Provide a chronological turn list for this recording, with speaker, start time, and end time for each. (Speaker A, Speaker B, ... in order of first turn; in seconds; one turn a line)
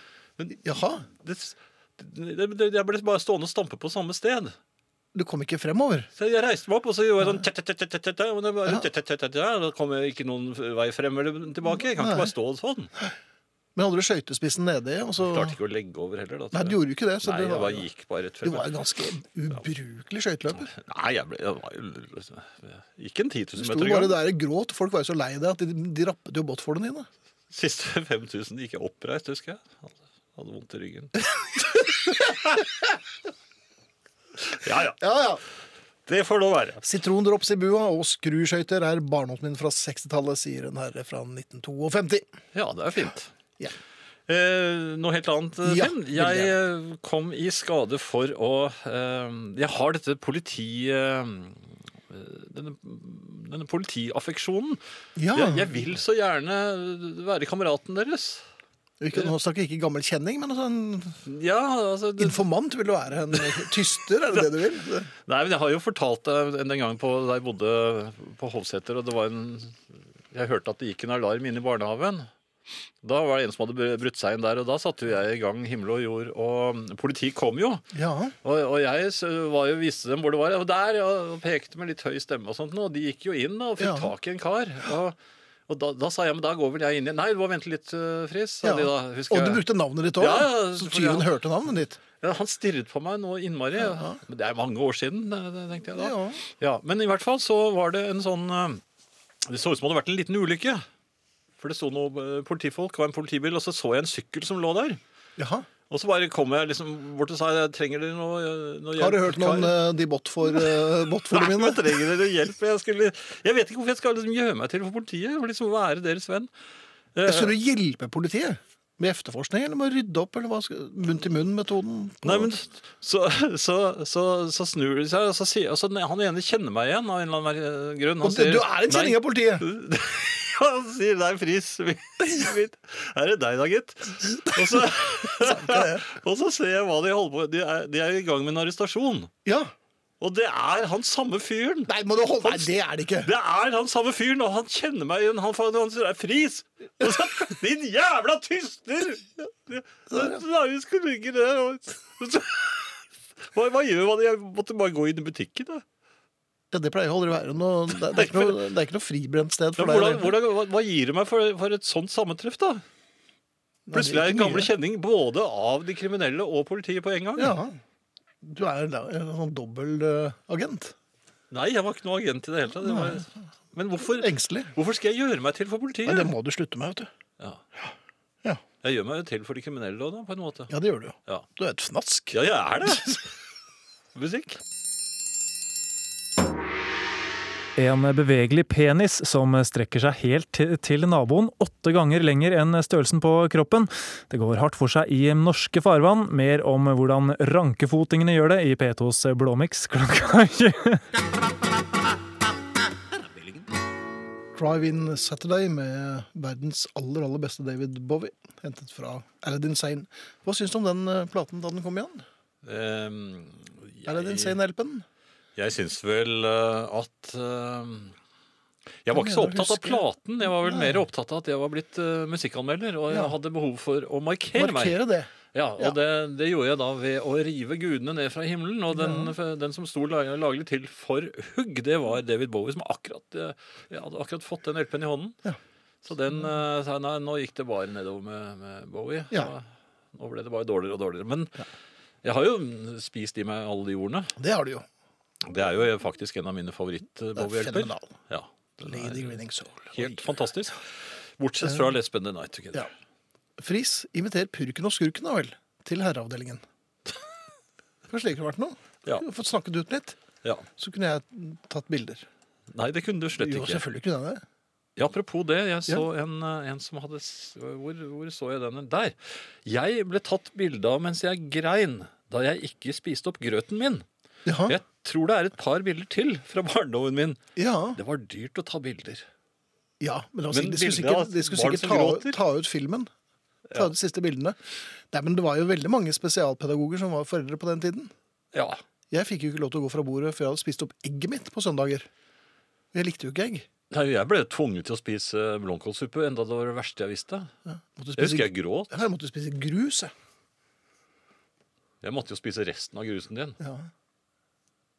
Speaker A: 0.4-0.6
Speaker B: 0.6-1.1
Speaker A: 1.2-4.5
Speaker B: 5.1-6.1
Speaker A: 6.2-12.9
Speaker B: 11.7-12.3
Speaker B: 13.8-15.6
Speaker A: 15.2-18.7
Speaker B: 16.5-17.9
Speaker B: 18.4-20.7
Speaker A: 20.7-24.2
Speaker B: 23.6-27.1
Speaker A: 27.5-32.6
Speaker A: 34.5-35.0
Speaker B: 35.0-35.4
Speaker A: 36.1-36.8
Speaker B: 36.8-42.3
Speaker A: 42.5-43.3
Speaker A: 44.3-54.8
Speaker B: 45.6-46.5
Speaker B: 55.2-55.8
Speaker A: 55.3-58.5
Speaker B: 59.0-61.2
Speaker A: 61.3-62.5
Speaker B: 62.2-65.1
Speaker A: 63.3-63.7
Speaker A: 65.3-69.8
Speaker A: 70.3-72.3
Speaker A: 73.0-77.8
Speaker B: 77.9-78.3
Speaker A: 78.4-85.2
Speaker B: 83.8-84.1
Speaker A: 85.7-89.7
Speaker B: 88.6-92.0
Speaker A: 90.2-91.3
Speaker A: 92.2-98.8
Speaker B: 93.8-94.2
Speaker B: 96.0-96.4
Speaker A: 99.5-100.8
Speaker A: 101.6-105.0
Speaker B: 105.4-105.7
Speaker A: 105.9-109.8
Speaker B: 109.0-112.0
Speaker A: 110.5-116.5
Speaker A: 117.2-117.6
Speaker B: 117.2-122.5
Speaker A: 122.2-139.3
Speaker B: 128.2-129.7
Speaker B: 134.4-136.1
Speaker B: 139.4-139.7
Speaker A: 140.2-155.8
Speaker B: 141.9-143.3
Speaker B: 150.1-150.4
Speaker B: 156.7-160.3
Speaker A: 158.1-158.6
Speaker A: 159.8-162.8
Speaker B: 163.9-164.7
Speaker A: 163.9-167.6
Speaker B: 167.4-167.8
Speaker B: 168.4-170.9
Speaker A: 171.5-176.3
Speaker B: 172.8-173.3
Speaker B: 174.1-174.7
Speaker B: 176.1-177.1
Speaker A: 178.8-180.7
Speaker B: 180.7-183.2
Speaker A: 182.3-183.3
Speaker A: 184.2-184.6
Speaker C: 187.8-201.0
Speaker B: 204.6-212.2
Speaker A: 212.6-214.6
Speaker B: 214.1-215.1
Speaker A: 215.6-218.2
Speaker A: 219.0-225.0
Speaker B: 219.1-221.1
Speaker B: 223.1-223.4
Speaker B: 224.6-226.0
Speaker A: 225.5-235.4
Speaker B: 228.9-229.3
Speaker A: 236.1-241.6
Speaker A: 242.2-244.3
Speaker B: 244.4-244.8
Speaker A: 245.4-249.4
Speaker B: 247.4-248.2
Speaker B: 248.8-250.3
Speaker A: 249.9-250.9
Speaker A: 251.4-252.9
Speaker B: 253.6-256.6
Speaker B: 258.1-260.2
Speaker B: 260.8-262.3
Speaker A: 262.7-263.9
Speaker B: 263.4-264.4
Speaker A: 265.0-274.1
Speaker B: 274.5-274.8
Speaker A: 274.7-277.4
Speaker B: 277.6-278.0
Speaker A: 278.0-279.2
Speaker B: 280.0-283.1
Speaker A: 280.5-282.4
Speaker B: 283.8-284.6
Speaker B: 285.1-288.1
Speaker A: 288.5-288.8
Speaker B: 289.1-292.1
Speaker B: 292.9-293.7
Speaker A: 293.9-297.5
Speaker B: 297.7-300.1
Speaker A: 298.2-298.9
Speaker A: 302.0-303.6
Speaker B: 303.6-303.9